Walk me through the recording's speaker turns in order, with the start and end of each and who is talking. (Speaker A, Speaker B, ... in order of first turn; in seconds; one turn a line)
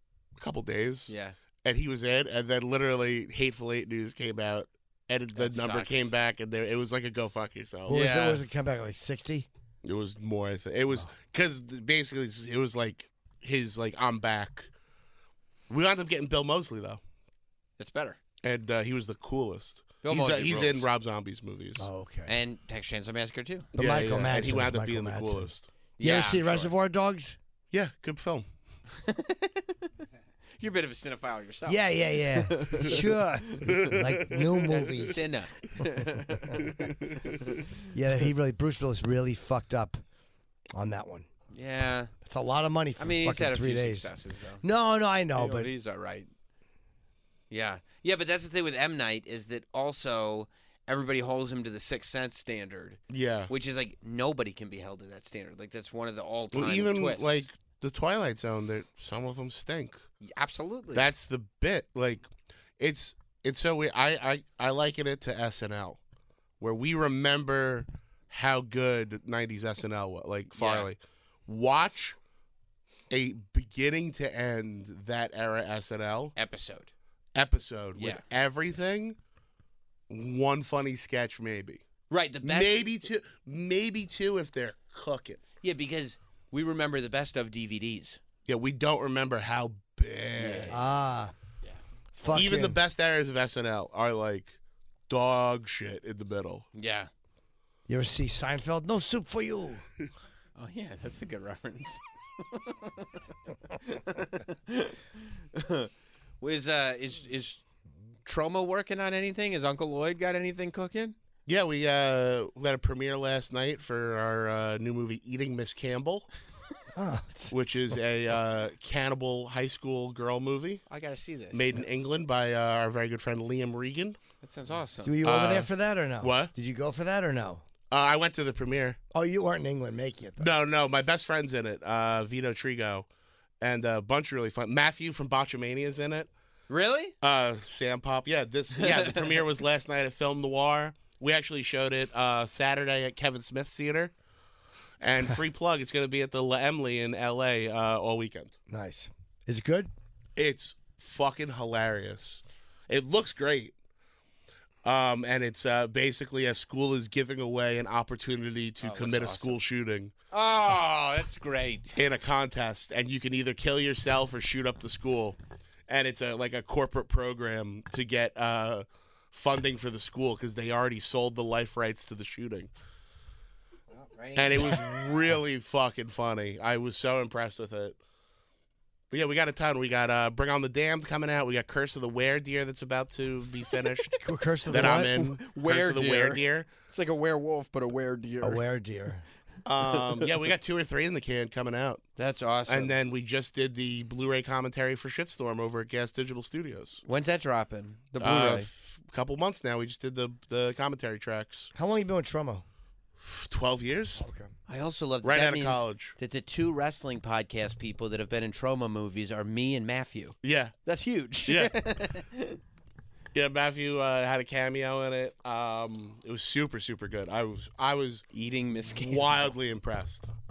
Speaker A: 0.4-1.1
Speaker B: 1.1-1.4
Speaker A: 1.6-8.0
Speaker B: 5.3-6.1
Speaker B: 7.9-8.4
Speaker C: 7.9-9.5
Speaker A: 9.8-14.7
Speaker A: 15.7-17.0
Speaker B: 17.8-18.2
Speaker A: 18.4-21.9
Speaker B: 20.0-20.9
Speaker C: 21.8-22.4
Speaker B: 22.2-23.7
Speaker A: 23.7-25.7
Speaker C: 23.7-27.4
Speaker B: 26.0-26.7
Speaker A: 27.7-28.4
Speaker B: 28.9-29.9
Speaker B: 30.6-33.8
Speaker C: 31.7-35.2
Speaker A: 33.7-35.0
Speaker B: 34.7-37.7
Speaker C: 36.3-36.6
Speaker A: 36.7-37.2
Speaker C: 37.9-40.0
Speaker C: 40.7-41.3
Speaker B: 41.5-42.1
Speaker C: 42.2-45.7
Speaker B: 43.0-44.6
Speaker B: 45.3-46.3
Speaker B: 47.5-57.4
Speaker A: 53.1-53.5
Speaker A: 56.5-60.0
Speaker B: 60.2-61.1
Speaker A: 60.9-62.3
Speaker A: 62.8-66.0
Speaker A: 66.6-72.2
Speaker B: 70.5-70.9
Speaker A: 73.1-76.3
Speaker B: 76.3-76.9
Speaker A: 77.3-79.2
Speaker B: 77.9-78.2
Speaker A: 80.1-81.8
Speaker B: 82.1-82.8
Speaker A: 82.4-85.4
Speaker B: 85.6-88.2
Speaker A: 88.5-90.7
Speaker B: 90.3-90.8
Speaker C: 90.7-91.3
Speaker C: 92.1-92.8
Speaker A: 92.3-94.5
Speaker A: 95.1-96.7
Speaker B: 96.7-97.1
Speaker C: 97.9-99.8
Speaker B: 100.5-107.6
Speaker B: 108.2-111.2
Speaker A: 111.5-116.3
Speaker C: 116.9-117.5
Speaker A: 117.5-120.8
Speaker B: 120.9-121.7
Speaker A: 121.5-124.2
Speaker B: 124.4-125.2
Speaker C: 125.0-127.6
Speaker A: 125.2-125.7
Speaker A: 126.2-126.5
Speaker A: 127.9-129.0
Speaker C: 129.1-130.5
Speaker A: 130.4-133.1
Speaker A: 133.6-136.3
Speaker B: 136.7-137.1
Speaker A: 137.2-144.1
Speaker B: 138.7-139.4
Speaker A: 145.0-148.5
Speaker C: 148.7-149.9
Speaker A: 150.4-153.7
Speaker A: 154.8-160.1
Speaker B: 158.8-159.6
Speaker B: 160.3-162.0
Speaker A: 161.9-172.7
Speaker B: 173.9-174.8
Speaker A: 174.3-178.0
Speaker A: 179.1-184.2
Speaker C: 184.2-185.2
Speaker B: 184.7-188.6
Speaker A: 184.7-186.7
Speaker C: 188.4-189.2
Speaker A: 189.6-192.0
Speaker B: 189.8-190.3
Speaker B: 192.2-192.9
Speaker A: 192.7-197.0
Speaker B: 197.0-198.7
Speaker A: 198.2-201.7
Speaker C: 201.7-202.6
Speaker A: 203.2-204.2
Speaker C: 204.2-204.5
Speaker B: 204.7-212.6
Speaker A: 205.2-206.1
Speaker A: 210.4-210.7
Speaker A: 211.4-211.8
Speaker A: 213.3-218.2
Speaker B: 218.3-219.3
Speaker A: 218.9-220.3